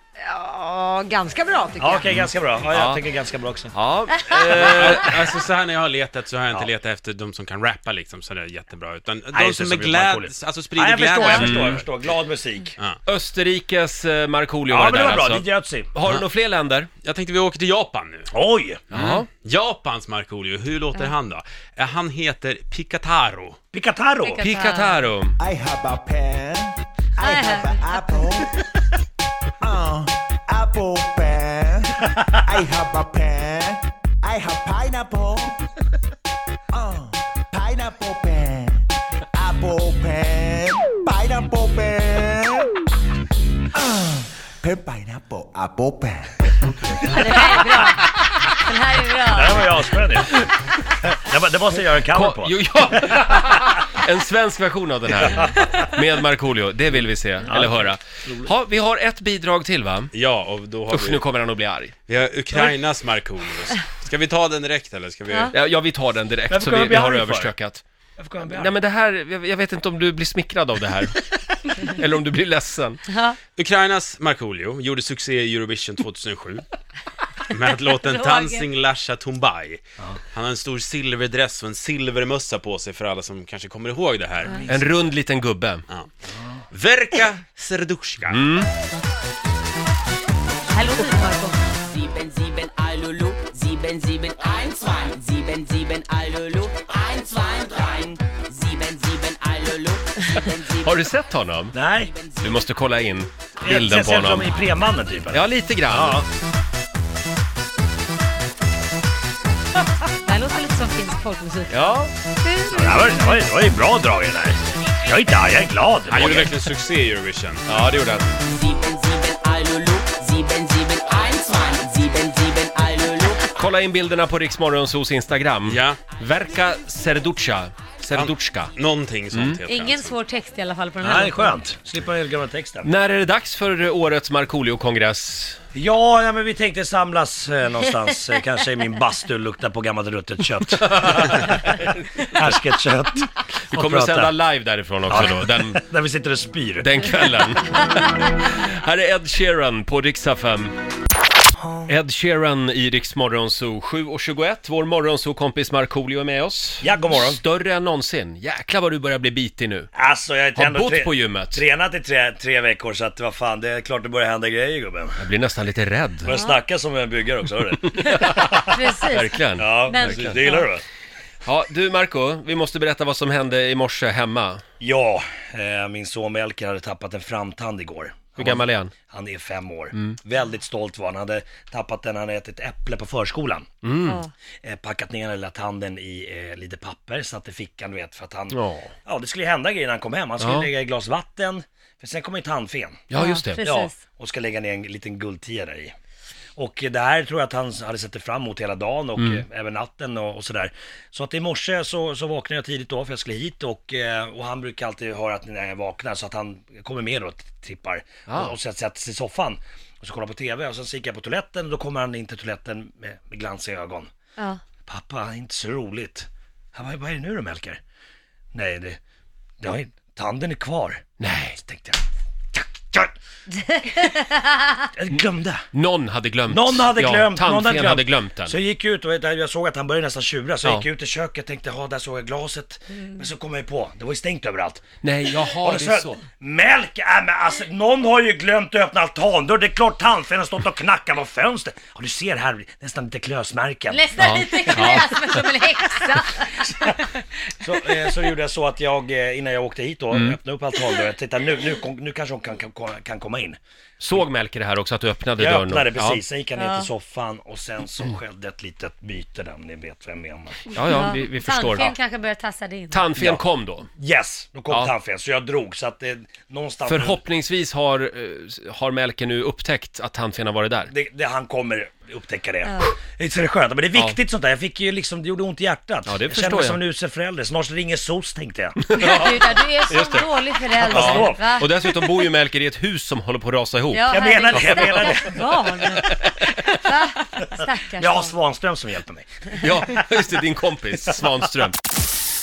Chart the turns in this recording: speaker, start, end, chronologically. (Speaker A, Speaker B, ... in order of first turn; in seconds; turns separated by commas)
Speaker A: 0.2-2.2, Speaker B: 1.8-3.7, Speaker C: 2.1-3.0, Speaker C: 3.7-5.1, Speaker A: 4.2-4.5, Speaker D: 4.5-11.8, Speaker B: 9.3-12.8, Speaker C: 11.2-11.8, Speaker C: 13.1-16.9, Speaker B: 14.7-15.9, Speaker D: 17.0-18.3, Speaker B: 18.3-18.8, Speaker D: 18.9-23.6, Speaker C: 18.9-19.3, Speaker B: 23.7-24.4, Speaker A: 24.2-25.1, Speaker C: 24.4-25.4, Speaker E: 25.4-28.5, Speaker A: 27.2-28.2, Speaker E: 29.6-35.6, Speaker E: 36.7-42.8, Speaker E: 43.7-47.3, Speaker A: 47.1-49.7, Speaker B: 49.3-50.3, Speaker B: 51.0-53.2, Speaker C: 52.1-60.1, Speaker B: 55.2-55.7, Speaker B: 57.5-58.5, Speaker D: 60.1-61.2, Speaker C: 60.9-61.9, Speaker D: 62.1-65.5, Speaker B: 62.5-62.8, Speaker A: 65.3-65.5, Speaker C: 65.5-67.8, Speaker B: 66.5-67.5, Speaker B: 68.2-68.8, Speaker C: 68.5-73.0, Speaker A: 73.1-73.4, Speaker D: 73.6-76.6, Speaker D: 77.5-84.6, Speaker A: 78.0-78.7, Speaker C: 84.7-85.8, Speaker B: 86.3-86.6, Speaker D: 86.7-88.4, Speaker C: 88.3-88.7, Speaker A: 90.7-91.8, Speaker F: 91.9-100.9, Speaker C: 100.5-101.8, Speaker B: 101.7-102.1, Speaker C: 102.4-104.6, Speaker B: 103.6-106.3, Speaker C: 105.3-106.3, Speaker A: 110.2-113.4, Speaker C: 111.7-112.1, Speaker B: 112.7-116.6, Speaker D: 116.1-117.7, Speaker C: 117.7-118.3, Speaker F: 118.5-123.4, Speaker C: 123.5-128.7, Speaker D: 125.7-126.0, Speaker D: 128.1-130.2, Speaker C: 129.3-129.6, Speaker A: 129.7-131.6, Speaker B: 131.0-132.9, Speaker C: 132.8-135.6, Speaker B: 135.7-144.4, Speaker C: 140.8-142.6, Speaker C: 143.7-145.8, Speaker B: 145.1-146.9, Speaker C: 146.8-150.7, Speaker B: 151.6-151.9, Speaker C: 151.9-159.9, Speaker B: 156.8-157.4, Speaker B: 159.9-165.2, Speaker C: 160.6-161.6, Speaker C: 165.2-166.3, Speaker B: 166.2-168.7, Speaker A: 166.3-166.6, Speaker C: 167.9-170.4, Speaker A: 168.0-170.7, Speaker B: 169.6-170.8, Speaker C: 171.5-174.6, Speaker B: 174.8-183.7, Speaker C: 178.4-178.9, Speaker C: 183.8-184.2, Speaker A: 184.1-184.3, Speaker B: 184.6-195.9, Speaker C: 188.5-188.9, Speaker C: 190.4-190.7, Speaker C: 193.1-193.7, Speaker A: 193.1-194.0, Speaker B: 196.6-214.1, Speaker C: 199.2-199.4, Speaker C: 208.3-208.6, Speaker A: 214.4-214.6, Speaker B: 214.9-217.8, Speaker B: 218.5-219.0, Speaker B: 219.6-221.0, Speaker C: 221.2-221.6, Speaker B: 221.6-223.1, Speaker A: 223.5-224.8, Speaker B: 224.9-225.7, Speaker C: 225.7-228.6, Speaker B: 226.5-234.8, Speaker C: 235.0-236.2, Speaker B: 235.6-245.1, Speaker A: 243.9-247.1, Speaker C: 244.2-245.1, Speaker B: 246.6-246.9, Speaker B: 247.5-253.6, Speaker C: 254.0-256.2, Speaker B: 255.4-260.7, Speaker A: 256.6-256.9, Speaker C: 260.7-261.9, Speaker A: 260.8-263.1, Speaker C: 262.9-263.9, Speaker B: 263.2-263.4, Speaker B: 264.0-267.2, Speaker C: 266.9-270.9, Speaker B: 270.9-279.3, Speaker A: 272.6-272.9, Speaker C: 276.1-276.8, Speaker C: 278.9-286.9, Speaker A: 278.9-282.1, Speaker B: 280.8-281.4, Speaker A: 283.9-286.2, Speaker B: 284.1-285.9, Speaker A: 286.7-288.4, Speaker B: 287.9-289.4, Speaker C: 289.5-291.8